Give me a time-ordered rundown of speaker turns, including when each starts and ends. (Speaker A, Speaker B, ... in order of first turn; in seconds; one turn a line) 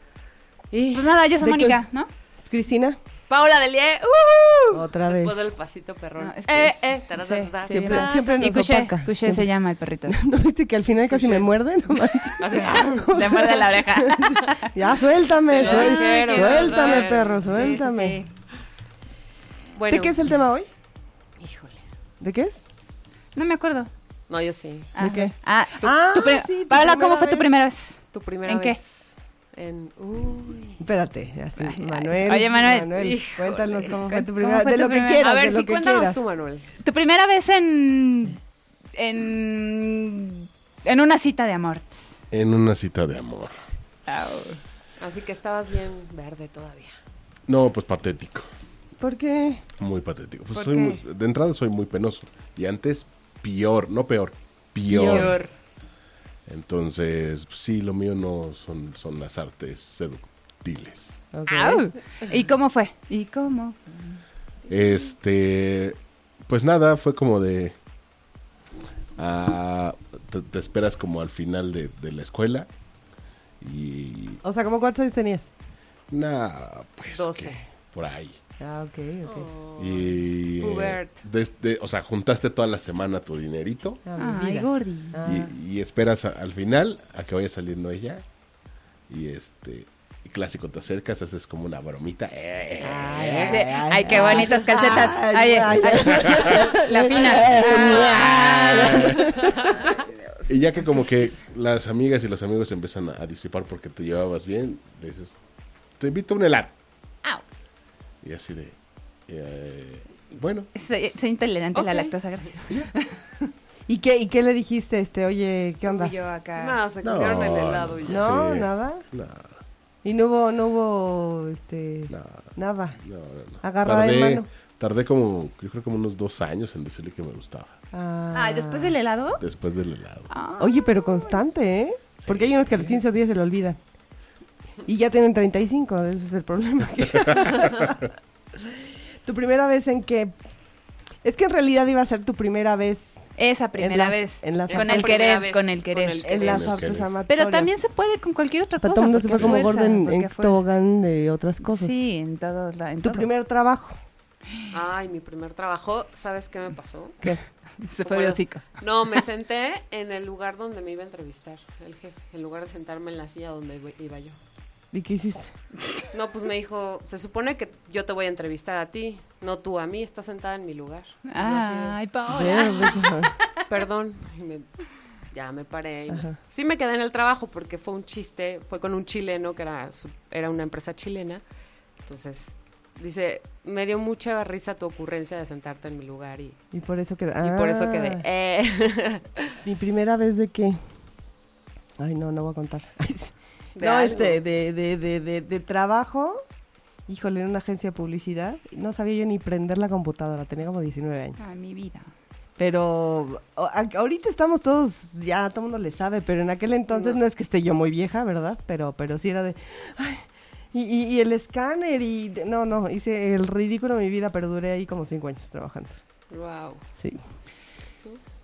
Speaker A: 0.7-1.0
Speaker B: 0.9-2.1
Speaker C: 1.4-1.8
Speaker C: 2.4-3.0
Speaker A: 3.3-8.3
Speaker C: 4.7-5.5
Speaker B: 6.2-10.2
Speaker C: 7.7-9.5
Speaker C: 10.1-18.2
Speaker A: 11.1-11.5
Speaker A: 12.4-13.1
Speaker B: 13.1-14.7
Speaker A: 15.5-17.4
Speaker B: 15.5-18.3
Speaker A: 19.8-20.2
Speaker C: 19.9-20.7
Speaker A: 21.4-21.8
Speaker C: 22.2-22.6
Speaker B: 23.4-23.9
Speaker A: 24.3-24.9
Speaker B: 24.9-28.8
Speaker C: 25.0-27.5
Speaker A: 28.1-30.8
Speaker C: 30.8-36.2
Speaker B: 31.6-32.9
Speaker A: 33.0-33.9
Speaker B: 34.0-35.3
Speaker A: 35.2-36.6
Speaker B: 36.8-38.4
Speaker B: 39.0-42.2
Speaker D: 42.3-43.5
Speaker B: 44.1-44.6
Speaker A: 45.0-46.9
Speaker D: 47.5-48.5
Speaker C: 49.0-49.6
Speaker D: 49.8-55.4
Speaker B: 50.5-51.0
Speaker C: 54.9-55.4
Speaker A: 54.9-55.5
Speaker D: 56.5-61.2
Speaker C: 61.3-61.9
Speaker B: 61.5-64.0
Speaker D: 64.7-67.8
Speaker D: 69.2-72.7
Speaker D: 73.6-74.4
Speaker C: 74.4-75.5
Speaker D: 76.1-78.4
Speaker A: 77.1-77.6
Speaker C: 78.6-79.5
Speaker A: 79.2-81.2
Speaker D: 79.8-84.0
Speaker C: 84.0-85.5
Speaker B: 84.2-85.2
Speaker D: 85.2-88.2
Speaker D: 89.1-93.5
Speaker C: 92.8-99.6
Speaker B: 93.5-99.3
Speaker D: 95.8-96.4
Speaker D: 100.5-105.4
Speaker D: 106.0-106.7
Speaker D: 108.2-108.8
Speaker D: 109.3-110.7
Speaker B: 110.7-113.0
Speaker A: 111.7-112.1
Speaker C: 113.9-116.2
Speaker B: 115.8-116.8
Speaker A: 116.5-118.3
Speaker D: 117.0-119.5
Speaker C: 118.0-119.0
Speaker C: 120.0-123.0
Speaker D: 122.1-127.8
Speaker C: 123.6-124.5
Speaker C: 127.9-128.9
Speaker B: 128.3-129.4
Speaker D: 129.4-130.3
Speaker B: 130.3-131.3
Speaker C: 130.6-133.8
Speaker D: 132.2-132.8
Speaker C: 134.8-137.9
Speaker C: 139.2-140.3
Speaker C: 141.2-143.2
Speaker B: 143.4-146.4
Speaker C: 143.7-145.3
Speaker A: 144.7-146.8
Speaker C: 146.2-147.7
Speaker D: 146.4-147.1
Speaker B: 147.3-150.6
Speaker C: 148.8-151.9
Speaker D: 149.4-149.7
Speaker B: 151.6-153.3
Speaker C: 153.0-154.0
Speaker A: 154.7-157.2
Speaker B: 157.8-158.7
Speaker A: 158.0-164.4
Speaker C: 164.9-165.5
Speaker A: 166.1-172.0
Speaker B: 171.3-173.1
Speaker C: 172.3-173.3
Speaker A: 173.7-174.7
Speaker A: 175.3-181.4
Speaker C: 176.1-176.3
Speaker A: 182.0-186.6
Speaker C: 186.7-188.2
Speaker A: 187.4-189.5
Speaker C: 189.6-190.8
Speaker C: 192.0-196.4
Speaker A: 193.8-194.4
Speaker C: 197.1-201.4
Speaker B: 201.4-202.1
Speaker C: 202.6-216.0
Speaker A: 206.9-207.2
Speaker A: 216.3-216.8